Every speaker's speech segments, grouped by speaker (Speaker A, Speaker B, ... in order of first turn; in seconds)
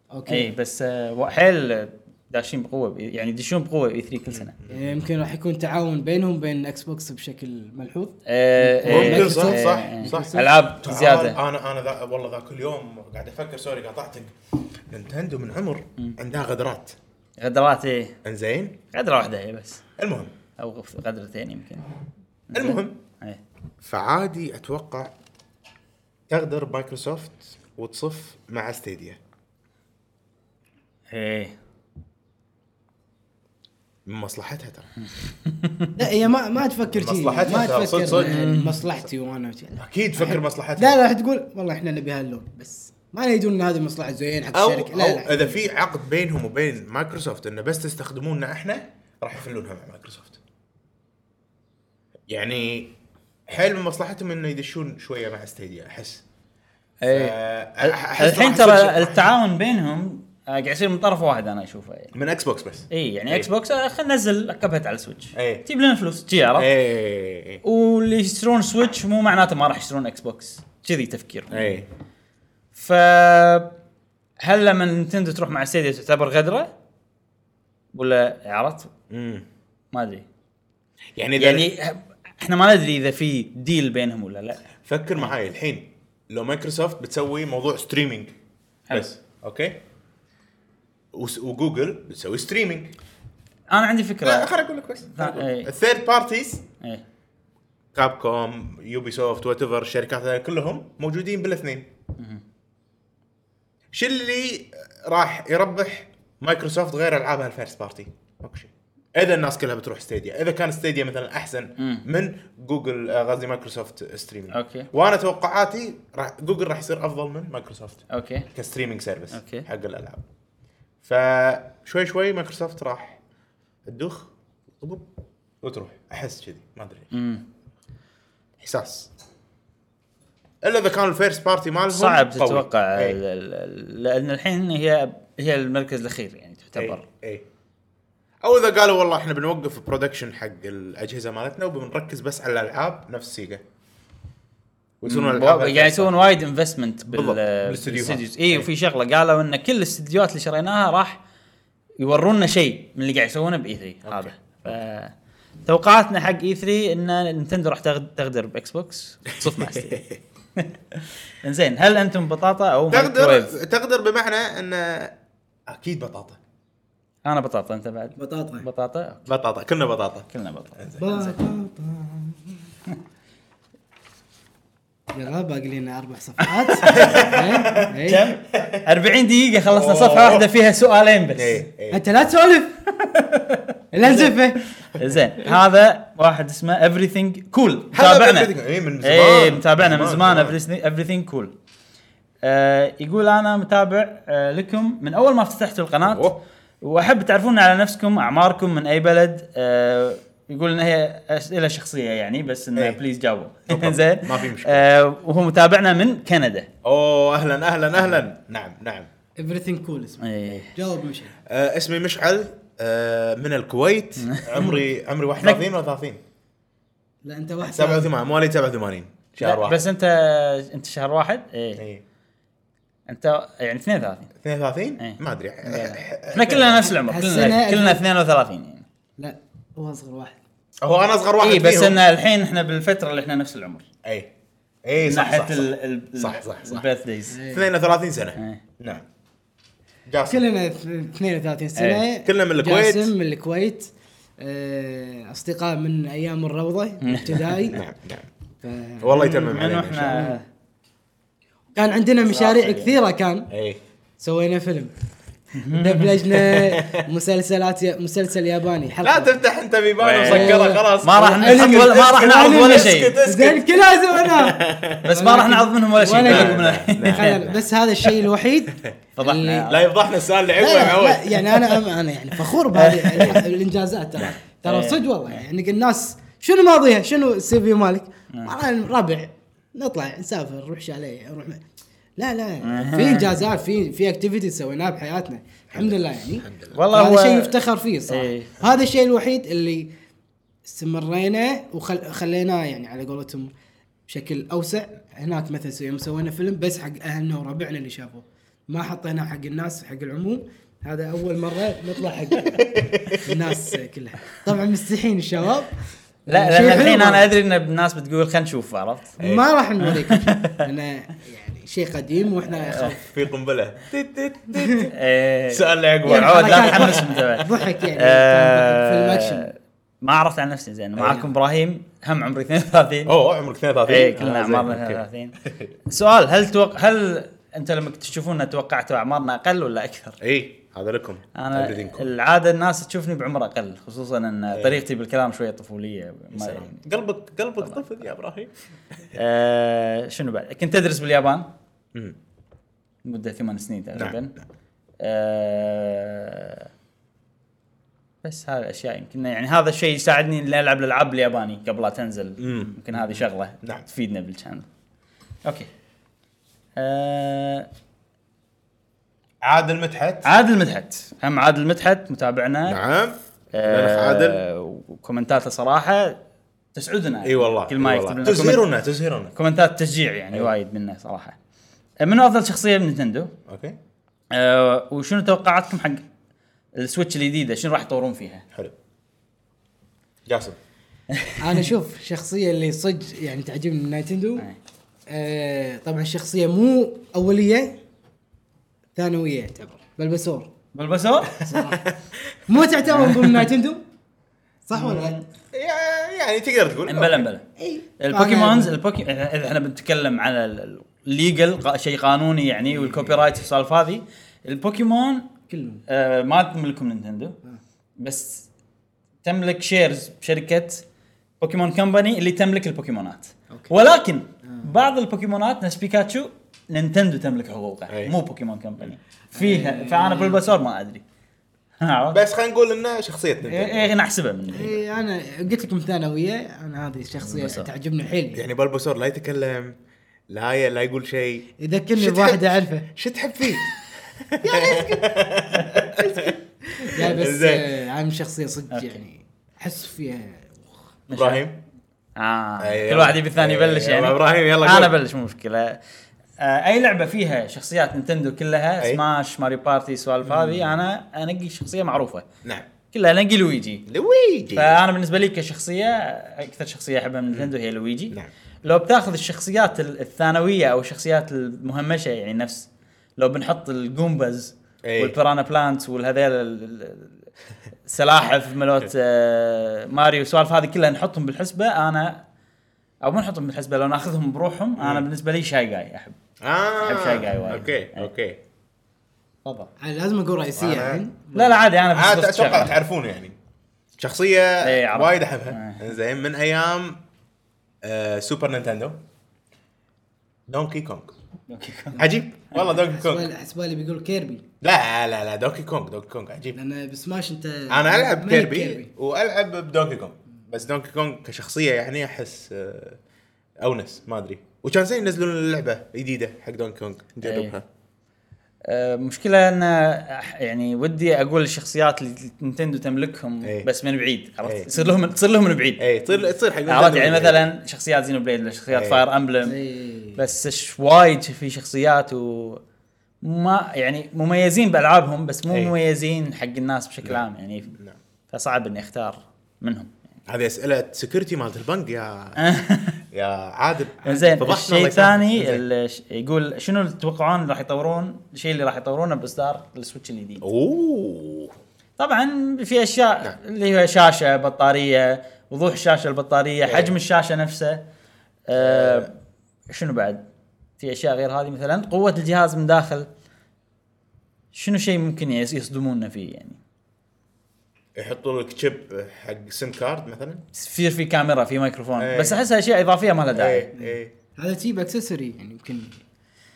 Speaker A: 0.1-0.5, 4.7-10.5, 36.0-45.6, 168.2-168.7, 171.0-172.6, 175.1-178.3, 181.9-182.8, 183.9-184.6, 209.4-211.3, 217.2-218.1, 225.7-226.0, 226.9-228.0, 229.2-230.4, 237.3-237.7, 240.2-247.8, 248.6-250.4, 251.8-253.5, 254.2-254.9, 255.7-259.4, 260.3-269.7, 270.6-281.6, 282.2-289.9, 290.6-293.5, 294.1-305.7, 306.3-307.3, 309.2-313.1, 314.6-314.9, 316.1-319.5, 381.4-384.5, 385.1-387.8, 388.9-390.5, 391.4-391.9, 392.5-393.8, 394.7-395.2, 397.6-398.8, 405.5-405.8, 414.4-414.7, 419.4-420.5, 424.5-428.4, 431.6-432.9, 434.4-435.2, 435.9-440.7, 479.8-481.7, 492.9-494.4, 496.6-498.9, 519.4-520.2, 563.7-566.0
Speaker B: 0.3-4.5, 8.3-11.4, 17.4-18.2, 18.9-19.8, 20.6-21.9, 22.5-23.4, 31.1-31.6, 35.4-35.9, 38.1-38.8, 57.0-62.1, 62.9-66.7, 67.6-71.7, 72.8-73.7, 74.4-76.7, 77.9-78.9, 79.9-80.2, 81.4-84.6, 93.7-94.6, 95.1-95.7, 111.8-112.0, 114.5-114.9, 118.1-118.5, 119.3-119.7, 127.1-127.4, 131.9-137.0, 145.1-151.2, 152.0-155.1, 155.7-160.0, 161.3-163.5, 167.2-169.3, 170.3-171.3, 176.4-177.3, 178.0-181.6, 183.0-184.3, 184.9-188.5, 189.0-191.5, 192.4-206.7, 210.2-210.7, 214.2-214.8, 219.4-221.8, 223.1-224.3, 226.3-228.8, 231.4-233.8, 235.0-237.4, 241.8-242.0, 247.0-247.7, 249.3-250.4, 252.3-252.9, 255.6-256.2, 260.0-263.2, 265.0-267.4, 269.2-269.8, 272.7-273.4, 274.6-275.0, 282.6-283.4, 286.7-287.6, 288.1-288.5, 306.3-309.2, 309.8-310.6, 314.9-323.1, 323.9-325.4, 325.9-330.2, 331.4-336.8, 339.1-341.5, 343.0-344.3, 345.0-346.7, 348.2-354.7, 356.8-357.7, 360.2-362.8, 363.5-366.2, 366.8-368.7, 369.4-371.4, 372.0-373.3, 374.3-376.1, 376.8-378.4, 381.1-381.5, 390.7-391.4, 392.9-393.4, 394.8-395.2, 396.9-397.4, 398.0-405.3, 405.9-407.4, 408.0-408.5, 409.2-410.8, 411.4-421.0, 421.8-422.2, 423.4-424.8, 427.2-427.7, 441.1-441.5, 442.2-445.8, 446.4-452.3, 452.9-453.8, 454.5-467.1, 467.9-472.2, 473.0-476.2, 476.8-478.1, 479.4-479.7, 481.4-482.8, 484.6-485.9, 491.5-492.6, 507.2-507.6, 508.6-515.9, 516.7-519.6, 520.2-522.6, 523.2-527.8, 528.3-529.9, 532.4-533.0, 534.0-540.4, 542.0-547.8, 548.5-549.1, 549.7-550.2, 550.8-553.1, 554.5-556.6, 560.5-563.7
Speaker C: 4.3-4.9, 8.9-14.3, 14.9-17.0, 18.2-18.8, 20.0-20.3, 22.5-23.0, 23.8-25.1, 26.3-29.2, 34.1-34.9, 36.9-38.4, 39.8-41.0, 44.5-50.4, 52.3-53.0, 53.5-56.2, 57.1-59.4, 62.1-63.5, 65.3-65.7, 66.6-67.6, 71.5-71.9, 79.1-79.5, 81.2-81.7, 84.8-88.3, 88.9-89.8, 91.1-92.9, 94.2-96.7, 98.0-101.9, 103.9-120.2, 121.0-123.2, 123.9-125.1, 125.6-127.1, 128.6-129.1, 130.6-133.2, 136.8-137.5, 138.4-143.6, 145.0-146.3, 147.1-148.7, 154.1-154.8, 159.4-160.2, 162.9-165.2, 165.7-166.4, 169.3-171.1, 176.9-178.0, 178.5-178.9, 179.7-180.5, 181.3-182.0, 185.0-185.5, 187.9-190.6, 196.0-196.4, 203.7-204.9, 206.8-209.1, 211.5-216.2, 217.7-219.9, 221.8-222.0, 224.4-226.9, 230.8-232.0, 234.0-234.3, 234.8-236.9, 237.5-239.0, 240.1-240.4, 242.2-243.1, 247.7-248.3, 249.0-250.2, 253.5-253.8, 256.6-257.0, 259.0-265.1, 266.0-267.7, 269.6-271.8, 285.7-286.8, 302.6-303.5, 309.2-309.5, 313.0-314.9, 315.5-317.4, 321.0-321.3, 323.1-325.7, 330.2-332.1, 334.5-334.8, 336.3-339.2, 343.9-344.2, 352.4-353.9, 359.4-360.3, 362.7-364.4, 367.2-369.4, 373.5-373.8, 380.3-380.6, 391.6-392.0, 395.5-397.3, 417.9-418.1, 422.1-423.9, 428.3-429.8, 430.3-437.7, 441.1-441.6, 442.6-444.9, 450.2-450.8, 452.4-452.7, 453.9-454.8, 464.9-465.2, 474.8-475.1, 476.4-478.4, 480.6-481.0, 481.9-483.4, 484.0-487.0, 487.8-489.0, 490.5-491.1, 492.0-493.3, 494.6-496.6, 497.7-503.0, 503.6-507.6, 513.4-513.7, 514.4-514.7, 515.8-517.5, 518.7-519.0, 525.5-525.8, 530.3-532.4, 533.1-535.6, 540.4-541.6, 546.7-546.9, 548.5-549.1, 558.0-560.4, 562.0-562.4, 563.3-564.1